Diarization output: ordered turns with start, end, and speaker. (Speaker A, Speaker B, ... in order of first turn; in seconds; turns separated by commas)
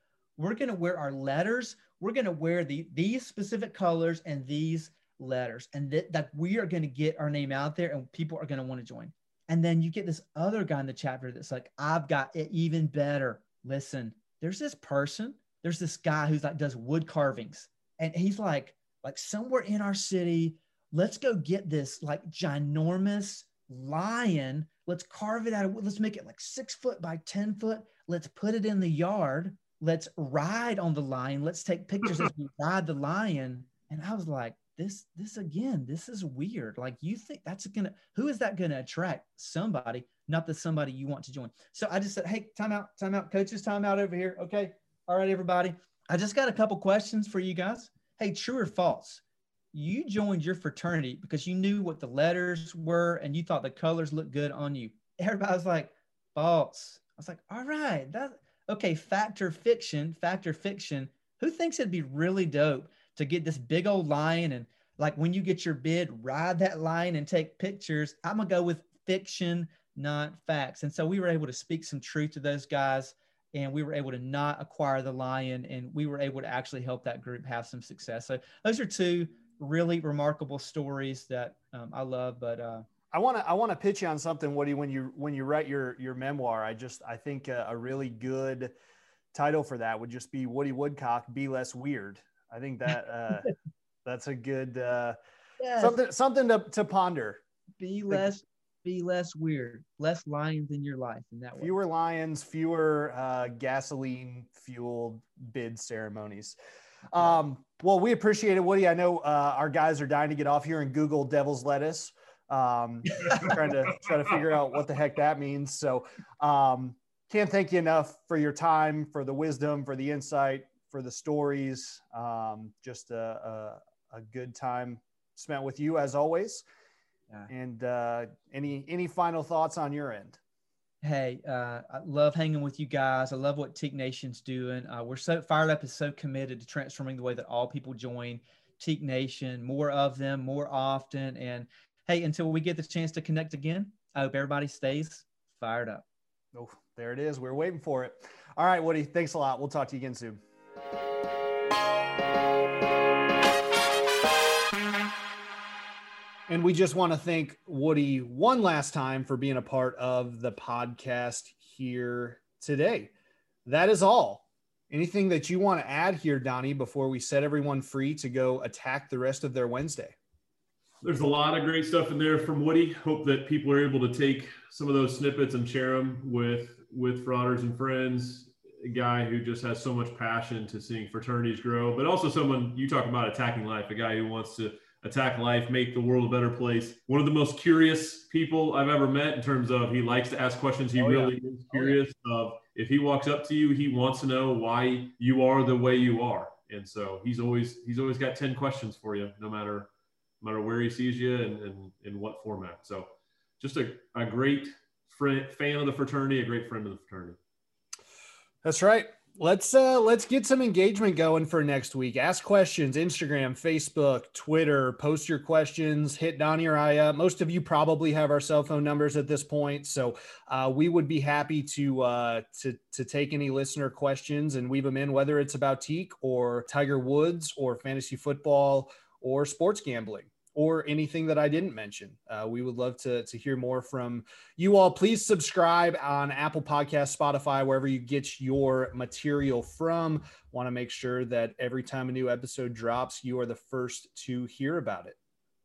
Speaker A: 0.4-82.8, Speaker B: 83.1-88.7, Speaker B: 89.3-93.5, Speaker B: 94.0-95.2, Speaker A: 95.6-96.0, Speaker B: 95.8-97.4, Speaker A: 97.8-101.7, Speaker B: 98.1-98.4, Speaker B: 101.6-106.5, Speaker B: 107.1-126.6, Speaker B: 127.5-130.4, Speaker A: 131.0-146.0, Speaker B: 146.5-150.4, Speaker B: 156.5-163.1, Speaker B: 163.7-170.1, Speaker C: 171.0-199.9, Speaker A: 191.0-191.9, Speaker C: 200.4-207.4, Speaker B: 208.6-245.2